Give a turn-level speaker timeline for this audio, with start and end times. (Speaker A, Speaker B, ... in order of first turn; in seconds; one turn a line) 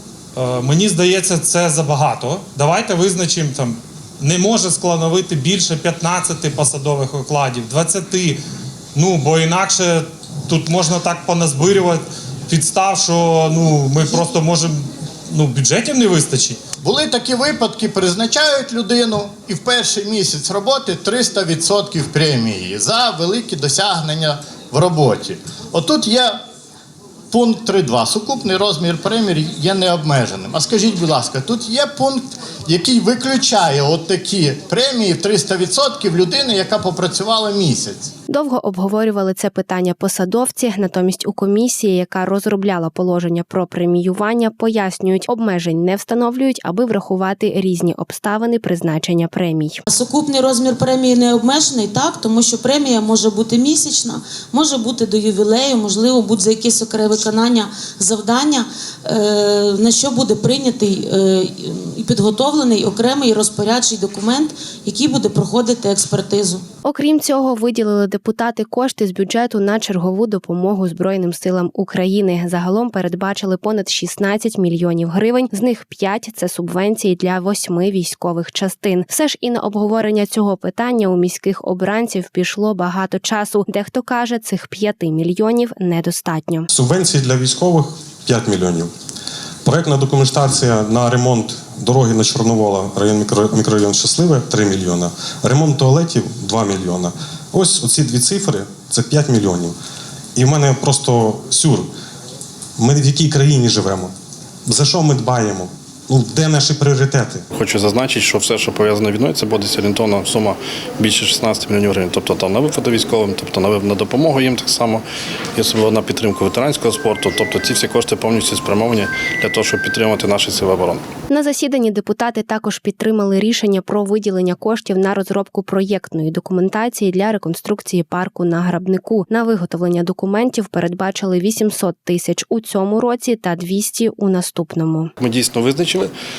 Speaker A: 0.4-8.4
Speaker A: 8.9-16.6
Speaker B: 16.8-26.4
Speaker B: 27.3-38.1
Speaker C: 38.3-49.8
Speaker D: 49.9-66.6
Speaker C: 66.8-86.7
Speaker E: 86.7-88.9
Speaker E: 89.7-99.8
Speaker E: 100.3-101.9
Speaker E: 102.8-104.1
Speaker E: 104.7-107.5
Speaker F: 107.5-121.0
Speaker C: 121.3-135.1
Speaker F: 135.2-136.1